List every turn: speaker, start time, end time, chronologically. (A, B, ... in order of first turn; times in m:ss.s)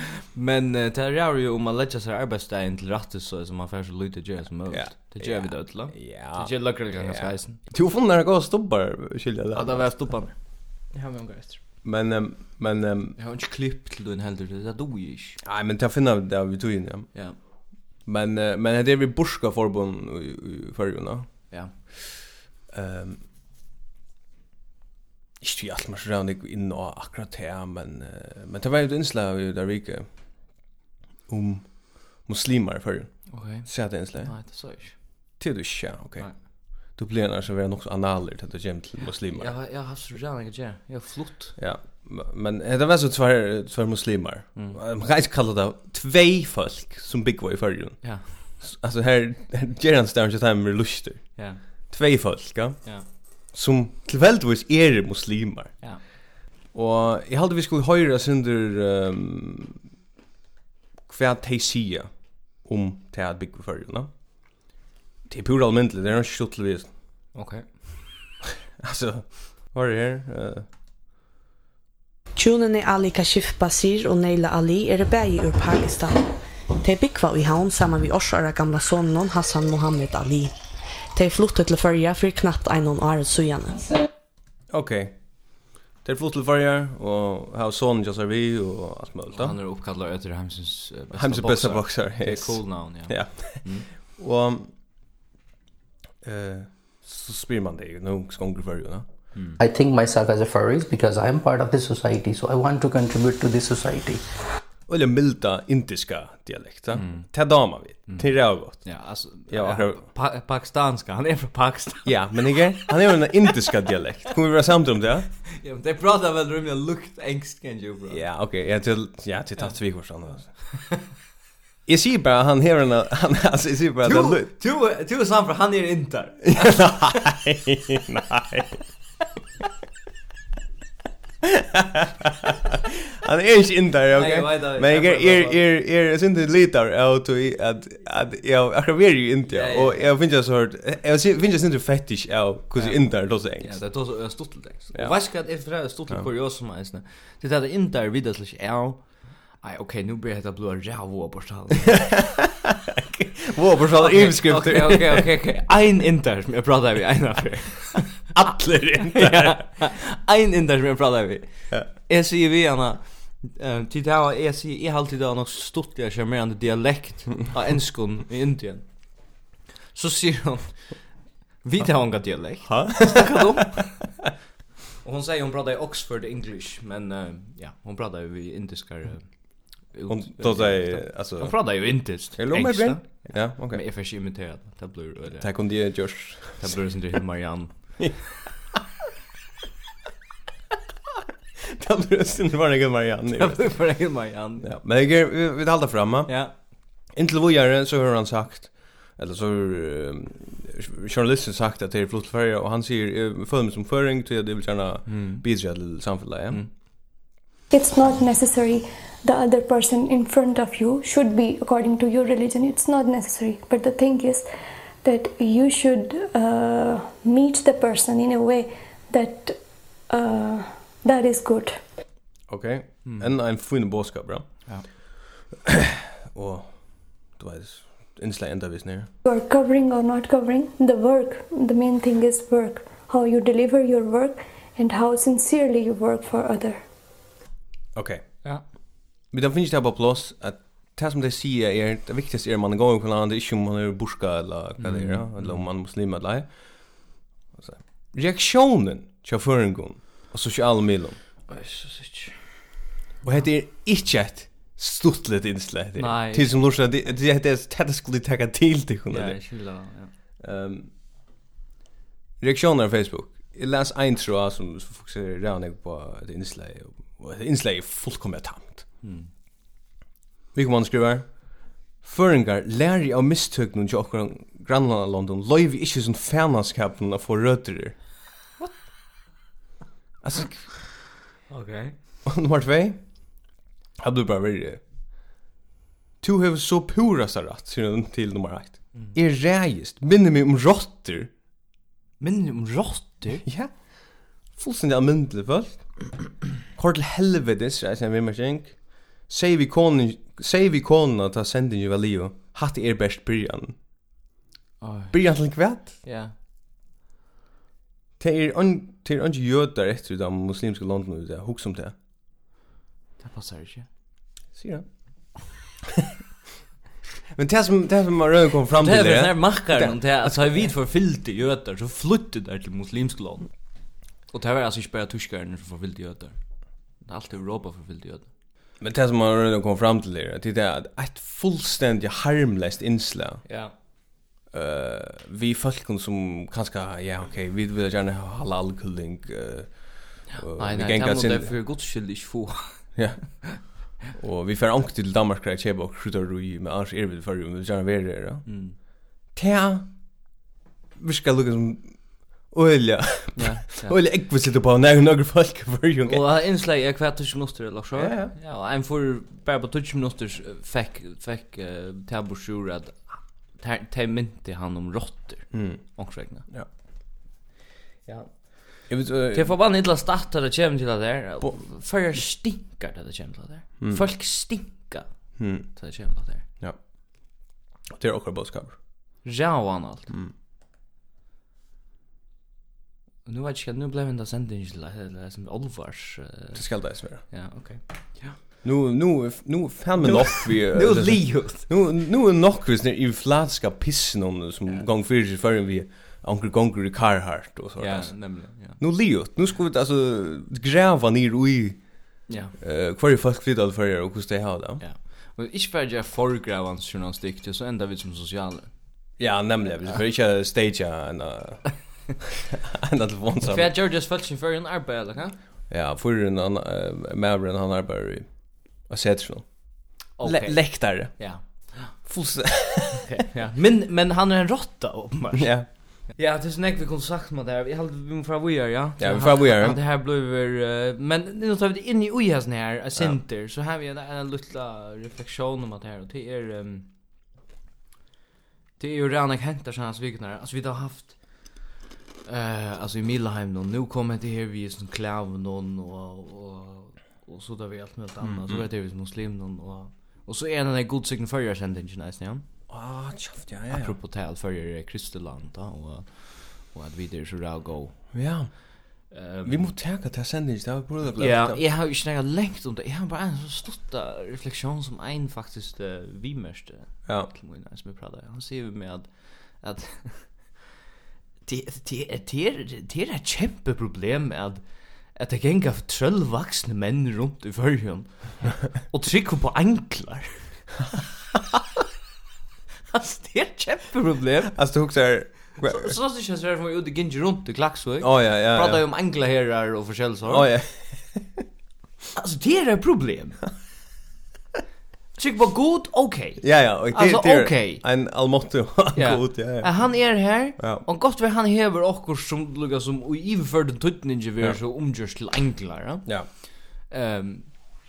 0:00.3-0:07.6 A
0:04.7-0:10.0 B
0:09.5-0:11.6 A
0:11.8-0:13.2 B
0:13.2-0:15.4 A
0:15.4-0:17.1 B
0:18.0-0:21.3 B
0:22.7-0:23.2 B
0:25.4-0:30.1 B
0:31.3-0:34.4 B
0:33.3-0:35.0 A
0:35.4-0:39.5 B
0:39.2-0:41.6 A
0:41.6-0:55.8 B
0:48.0-0:48.3 A
0:51.4-0:51.6 A
0:56.7-0:59.8 B
1:01.1-1:04.1 B
1:05.3-1:06.9 B
1:07.3-1:07.6 A
1:08.8-1:10.7 B
1:12.4-1:20.5 C
1:21.1-1:23.9 C
1:24.7-1:29.6 B
1:29.3-1:33.8 A
1:31.1-1:34.7 B
1:36.2-1:39.0 B
1:39.6-1:44.2 D
1:44.9-1:49.0 B
1:46.9-1:47.3 A
1:48.1-1:52.9 A
1:49.5-1:50.0 B
1:52.0-1:55.3 B
1:55.6-1:58.2 A
1:58.1-2:00.7 B
2:01.8-2:04.5 B
2:04.0-2:07.1 A
2:06.5-2:08.8 B
2:11.4-2:23.8 B
2:14.1-2:15.6 A
2:19.5-2:20.1 A
2:22.8-2:32.0 A
2:31.9-2:35.3 B
2:34.0-2:38.3 A
2:38.3-2:39.7 B
2:39.0-2:48.9 A
2:49.9-2:54.1 A
2:52.6-2:53.4 B
2:55.0-3:05.5 A
3:00.1-3:03.8 B
3:05.4-3:06.8 B
3:06.6-3:08.0 A
3:11.6-3:13.8 B
3:13.3-3:14.7 A
3:14.6-3:16.4 B
3:16.3-3:16.5 A
3:17.1-3:26.6 B
3:25.1-3:25.4 A
3:27.7-3:34.5 E
3:35.0-3:41.8 E
3:42.5-3:44.5 B
3:43.0-3:43.3 A
3:45.6-3:49.1 B
3:49.2-3:56.8 E
3:57.9-3:58.2 B
3:59.3-4:11.2 B
4:04.8-4:05.7 A
4:11.5-4:12.5 A
4:13.2-4:19.4 B
4:16.0-4:16.6 A
4:19.1-4:20.1 A
4:20.4-4:20.9 B
4:22.4-4:28.9 B
4:29.0-4:29.3 A
4:30.5-4:38.0 B
4:40.2-4:40.7 B
4:41.5-4:41.9 A
4:42.2-4:43.0 B
4:44.0-4:44.8 B
4:46.2-4:51.3 B
4:52.2-4:53.4 A
4:53.4-5:03.8 B
5:04.8-5:05.2 A
5:05.1-5:05.9 B
5:05.8-5:06.3 A
5:08.2-5:11.9 B
5:13.2-5:13.9 A
5:14.5-5:14.8 B
5:17.3-5:20.7 B
5:18.8-5:23.5 A
5:24.3-5:26.4 A
5:27.0-5:28.3 A
5:28.8-5:33.4 B
5:33.4-5:33.7 A
5:34.5-5:41.5 B
5:40.3-5:43.6 A
5:42.9-5:48.6 B
5:48.4-5:48.8 A
5:49.3-5:49.9 B
5:51.0-5:56.2 B
5:53.4-5:53.9 A
5:56.0-6:06.5 A
5:58.0-5:58.3 B
6:05.5-6:06.7 B
6:08.0-6:15.1 A
6:08.9-6:09.5 B
6:15.4-6:15.7 B
6:15.6-6:16.4 A
6:17.9-6:18.8 B
6:19.2-6:20.1 A
6:23.2-6:26.6 A
6:26.5-6:27.2 B
6:27.2-6:28.4 A
6:28.6-6:44.8 B
6:30.0-6:31.7 A
6:37.8-6:38.8 A
6:42.3-6:42.5 A
6:44.8-6:48.7 A
6:49.2-6:53.7 B
6:53.4-6:55.4 A
6:55.7-7:01.3 B
7:00.2-7:01.9 A
7:01.9-7:03.1 B
7:03.0-7:16.9 A
7:05.3-7:05.7 B
7:09.0-7:09.8 B
7:18.8-7:21.6 A
7:22.2-7:32.4 A
7:28.2-7:28.6 B
7:32.7-7:34.0 B
7:33.7-7:38.1 A
7:38.1-7:41.6 B
7:39.1-7:39.7 A
7:41.2-7:50.6 A
7:51.4-7:54.6 A
7:55.1-8:00.5 A
8:02.9-8:04.6 A
8:04.5-8:06.0 B
8:05.6-8:10.5 A
8:08.0-8:08.8 B
8:10.3-8:11.4 B
8:12.2-8:13.4 A
8:15.2-8:17.8 A
8:16.4-8:19.7 B
8:18.9-8:26.1 A
8:20.6-8:20.8 B
8:26.9-8:27.7 A